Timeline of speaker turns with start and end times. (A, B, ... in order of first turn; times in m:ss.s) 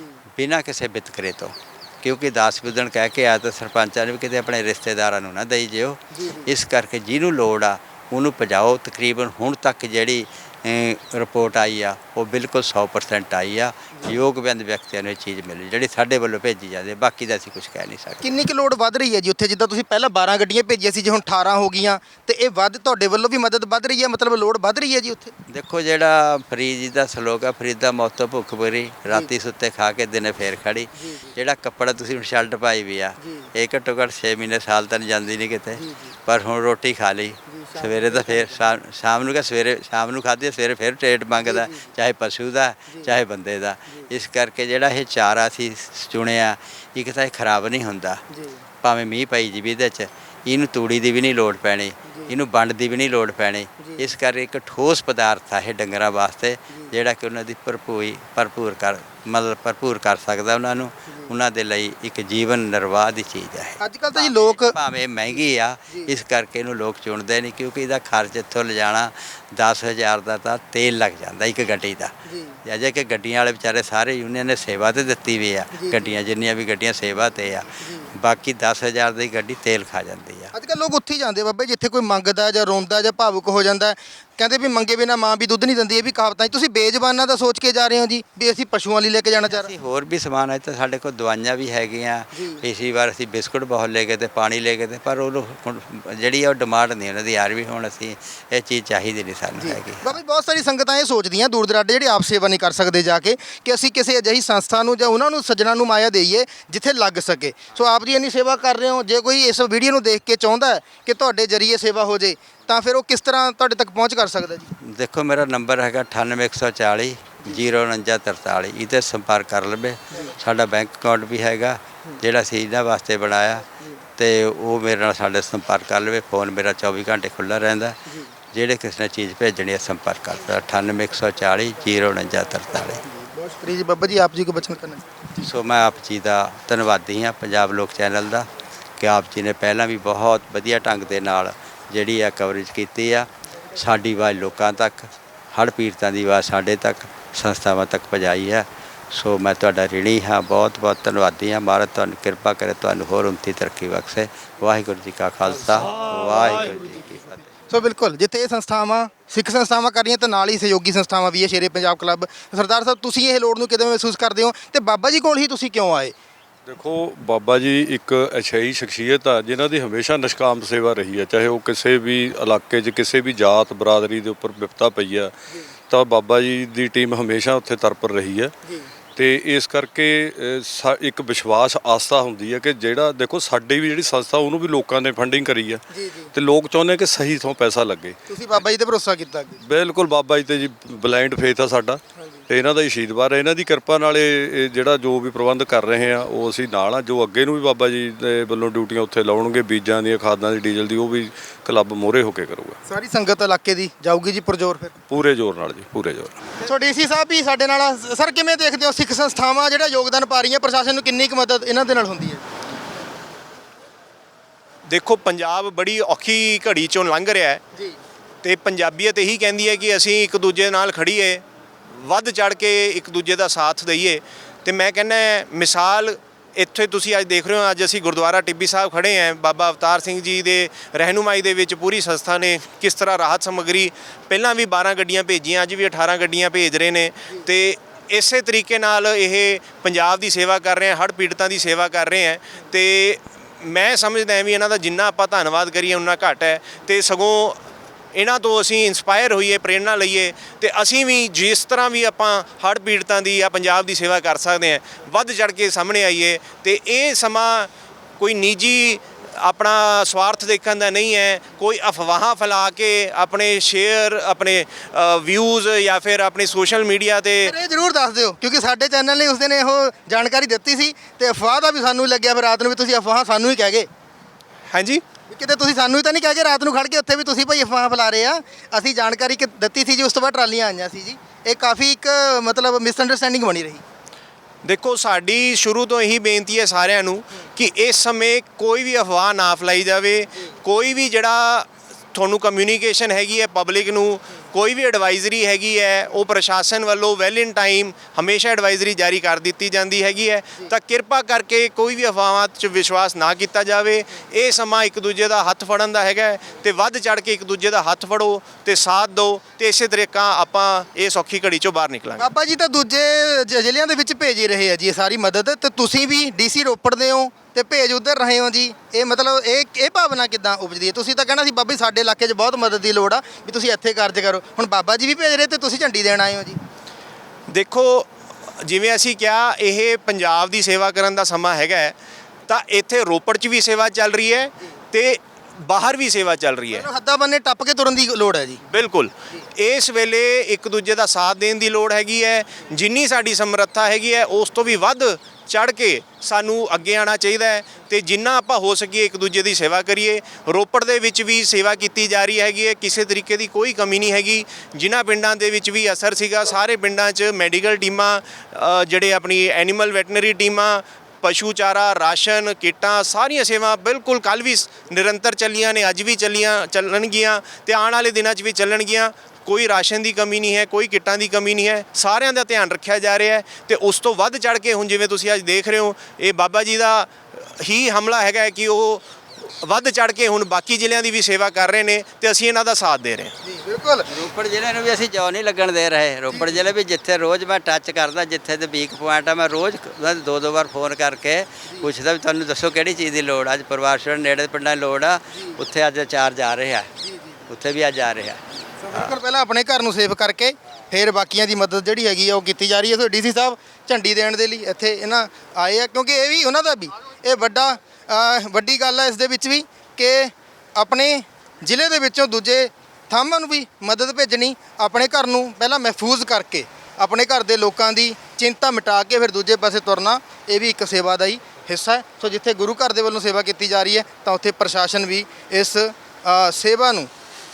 0:00.3-0:18.3 A
0:06.1-0:06.5 B
0:18.2-0:25.3 B
0:25.5-0:48.2 A
0:31.0-0:31.3 B
0:35.8-0:36.1 B
0:37.5-0:38.5 B
0:41.4-0:41.9 B
0:48.8-1:12.1 A
1:03.8-1:04.8 B
1:12.3-1:12.6 B
1:12.6-1:20.5 A
1:15.7-1:16.1 B
1:17.8-1:18.1 B
1:20.5-1:29.7 B
1:29.5-1:40.2 A
1:32.3-1:32.6 B
1:39.6-1:54.7 B
1:54.9-2:03.6 A
2:04.2-2:08.0 A
2:08.5-2:13.0 A
2:13.1-2:15.0 B
2:15.4-2:18.5 A
2:19.0-2:37.5 A
2:37.7-2:46.1 B
2:46.7-2:55.3 C
2:55.9-2:58.5 C
2:59.2-3:08.2 C
3:05.9-3:06.3 B
3:08.3-3:09.6 B
3:09.6-3:22.8 C
3:22.9-3:24.9 B
3:25.1-3:26.4 C
3:26.6-3:32.4 B
3:34.9-3:37.6 D
3:38.4-4:07.6 D
4:08.1-4:27.5 D
4:27.4-4:33.9 B
4:34.7-4:35.0 D
4:35.3-4:43.8 B
4:44.6-5:12.3 D
5:12.2-5:26.6 B
5:27.5-5:28.1 D
5:28.6-5:31.9 D
5:32.5-5:36.9 D
5:36.7-5:38.6 B
5:38.7-6:19.0 D
6:19.6-6:23.3 D
6:23.4-6:24.1 B
6:24.1-6:36.9 A
6:37.0-6:37.3 B
6:37.5-6:39.1 A
6:38.8-7:07.1 B